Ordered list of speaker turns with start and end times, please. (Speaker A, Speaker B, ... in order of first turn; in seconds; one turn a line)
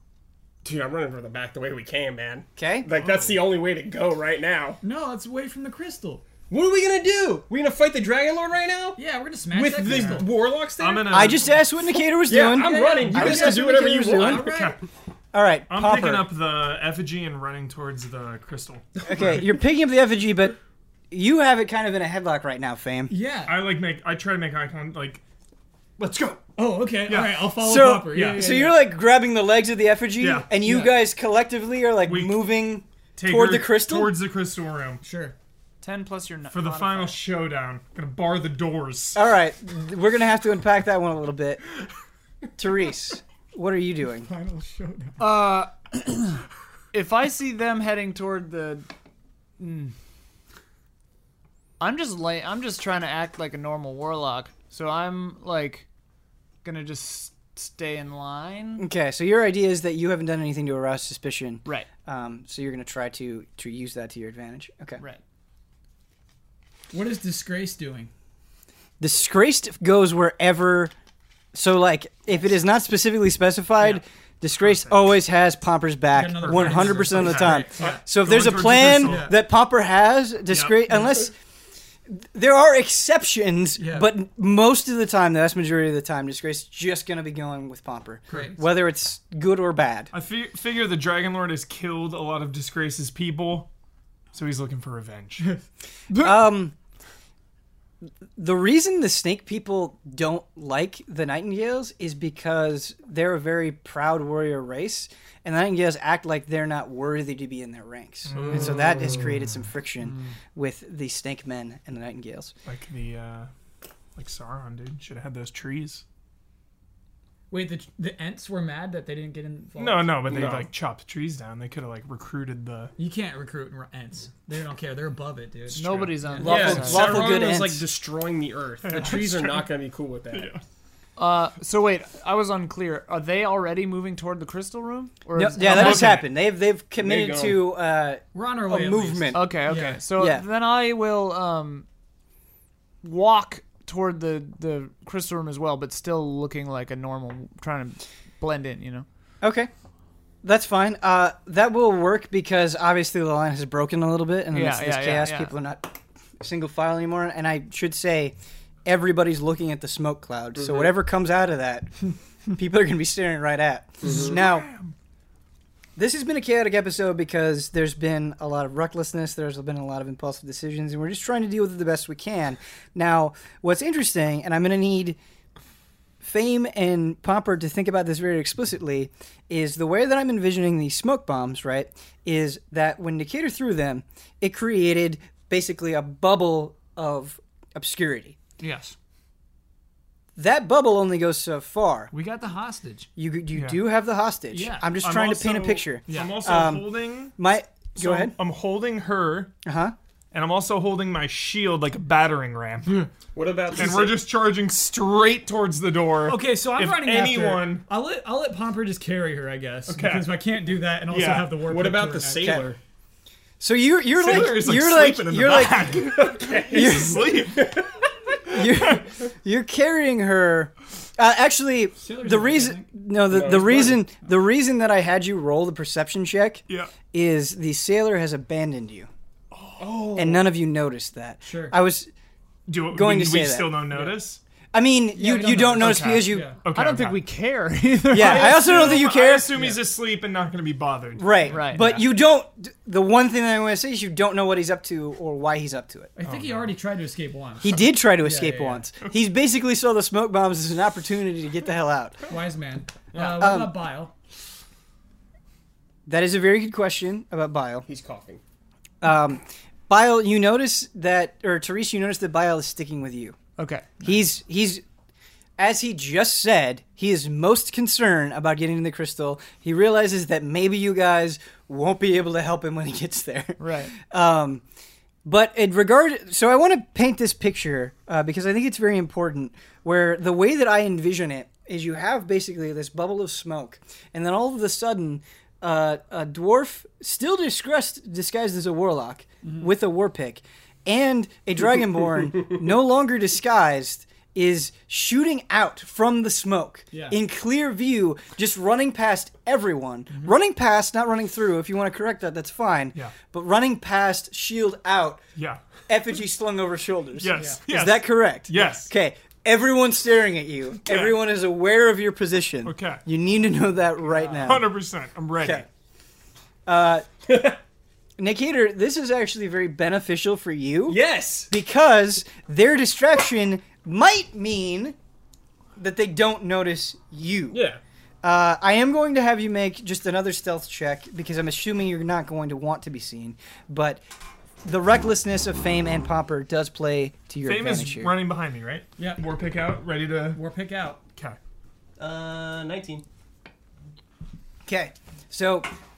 Speaker A: 0.6-4.8
Speaker B: 2.6-2.9
Speaker C: 3.0-3.4
Speaker D: 4.8-6.2
Speaker A: 6.5-9.0
Speaker D: 9.0-10.3
Speaker A: 9.5-11.4
Speaker C: 9.8-11.6
Speaker B: 11.1-14.5
Speaker A: 12.2-14.7
Speaker D: 12.3-14.8
Speaker C: 14.4-14.8
Speaker B: 15.3-16.3
Speaker C: 15.7-19.3
Speaker B: 19.1-20.6
Speaker B: 21.1-23.1
Speaker D: 23.1-23.7
Speaker C: 23.5-25.2
Speaker D: 26.6-28.8
Speaker C: 27.1-27.6
Speaker B: 27.6-34.1
Speaker C: 30.2-30.5
Speaker D: 30.6-31.0
Speaker C: 32.0-32.5
Speaker C: 33.1-35.0
Speaker D: 35.0-35.4
Speaker E: 35.8-37.2
Speaker C: 36.5-39.2
Speaker B: 39.1-41.6
Speaker B: 42.6-44.3
Speaker D: 44.2-45.3
Speaker E: 45.2-46.4
Speaker E: 46.9-48.9
Speaker E: 49.6-49.9
Speaker E: 51.8-55.9
Speaker E: 56.6-58.9
Speaker B: 58.8-65.0
Speaker D: 66.9-68.1
Speaker B: 69.0-70.9
Speaker B: 71.5-81.3
Speaker C: 74.6-75.0
Speaker D: 76.1-78.1
Speaker C: 76.5-79.3
Speaker D: 79.0-79.3
Speaker C: 80.5-80.8
Speaker B: 82.1-90.1
Speaker D: 83.8-84.1
Speaker D: 88.3-88.6
Speaker C: 90.1-93.7
Speaker C: 94.3-95.6
Speaker B: 96.1-96.8
Speaker B: 98.4-112.5
Speaker C: 108.3-109.1
Speaker A: 108.3-108.9
Speaker C: 112.7-113.5
Speaker C: 114.2-116.0
Speaker D: 117.5-120.5
Speaker C: 119.8-122.9
Speaker A: 120.3-120.7
Speaker D: 123.0-126.8
Speaker C: 125.7-126.2
Speaker E: 125.7-127.1
Speaker B: 126.4-127.8
Speaker A: 126.4-130.5
Speaker C: 128.8-129.7
Speaker D: 128.9-129.3
Speaker C: 130.3-130.6
Speaker E: 131.2-136.2
Speaker B: 135.3-139.6
Speaker C: 135.6-136.2
Speaker A: 137.0-137.6
Speaker D: 138.3-140.0
Speaker E: 139.3-141.9
Speaker B: 140.2-140.4
Speaker E: 143.0-149.1
Speaker B: 149.4-149.7
Speaker B: 150.4-164.7
Speaker E: 154.5-155.5
Speaker A: 160.6-160.9
Speaker A: 164.0-164.3
Speaker C: 164.1-164.9
Speaker B: 166.0-175.2
Speaker B: 176.2-188.4
Speaker D: 188.6-188.9
Speaker B: 190.4-192.1
Speaker D: 192.1-193.1
Speaker B: 193.2-198.3
Speaker C: 193.6-193.8
Speaker D: 194.5-194.9
Speaker C: 195.0-197.3
Speaker D: 196.1-196.4
Speaker C: 198.0-199.6
Speaker B: 199.6-199.9
Speaker C: 200.3-203.1
Speaker A: 203.3-204.2
Speaker C: 203.7-207.8
Speaker D: 206.2-212.6
Speaker C: 209.9-210.4
Speaker C: 211.1-211.7
Speaker A: 211.6-212.8
Speaker B: 212.4-212.7
Speaker B: 213.6-216.0
Speaker C: 214.1-217.8
Speaker A: 215.9-217.9
Speaker B: 216.7-217.4
Speaker B: 218.5-229.1
Speaker C: 218.5-219.0
Speaker D: 222.0-222.9
Speaker A: 223.3-224.0
Speaker C: 226.7-227.0
Speaker C: 229.5-230.2
Speaker A: 229.8-230.4
Speaker B: 230.1-232.1
Speaker D: 231.4-231.8
Speaker C: 232.7-234.4
Speaker B: 232.9-233.8
Speaker D: 233.9-234.2
Speaker B: 234.7-236.6
Speaker D: 235.1-236.6
Speaker C: 235.8-237.2
Speaker E: 236.7-238.8
Speaker C: 238.1-242.0
Speaker B: 238.1-239.5
Speaker D: 239.5-239.8
Speaker B: 241.2-246.1
Speaker E: 241.5-241.8
Speaker D: 246.2-248.9
Speaker C: 246.2-246.7
Speaker B: 247.6-252.2
Speaker D: 252.3-254.1
Speaker B: 253.2-253.8
Speaker B: 256.1-257.9
Speaker A: 257.9-258.4
Speaker B: 259.0-263.4
Speaker E: 263.6-264.0
Speaker B: 264.0-264.8
Speaker B: 265.6-274.6
Speaker E: 273.6-273.9
Speaker B: 275.2-305.2
Speaker D: 296.9-297.2
Speaker C: 305.4-305.6
Speaker B: 305.9-314.7
Speaker C: 307.2-308.9
Speaker D: 307.3-307.6
Speaker C: 310.9-311.2
Speaker C: 312.6-313.0
Speaker D: 314.1-314.4
Speaker C: 314.4-315.6
Speaker B: 315.4-315.6
Speaker B: 316.6-317.1
Speaker A: 317.3-317.6
Speaker B: 318.2-325.0
Speaker A: 320.9-321.5
Speaker B: 325.8-327.6
Speaker A: 327.5-327.8
Speaker B: 328.2-334.0
Speaker B: 334.6-338.1
Speaker C: 337.4-340.4
Speaker D: 339.0-339.2
Speaker D: 340.3-341.0
Speaker A: 342.0-343.1
Speaker B: 344.6-345.7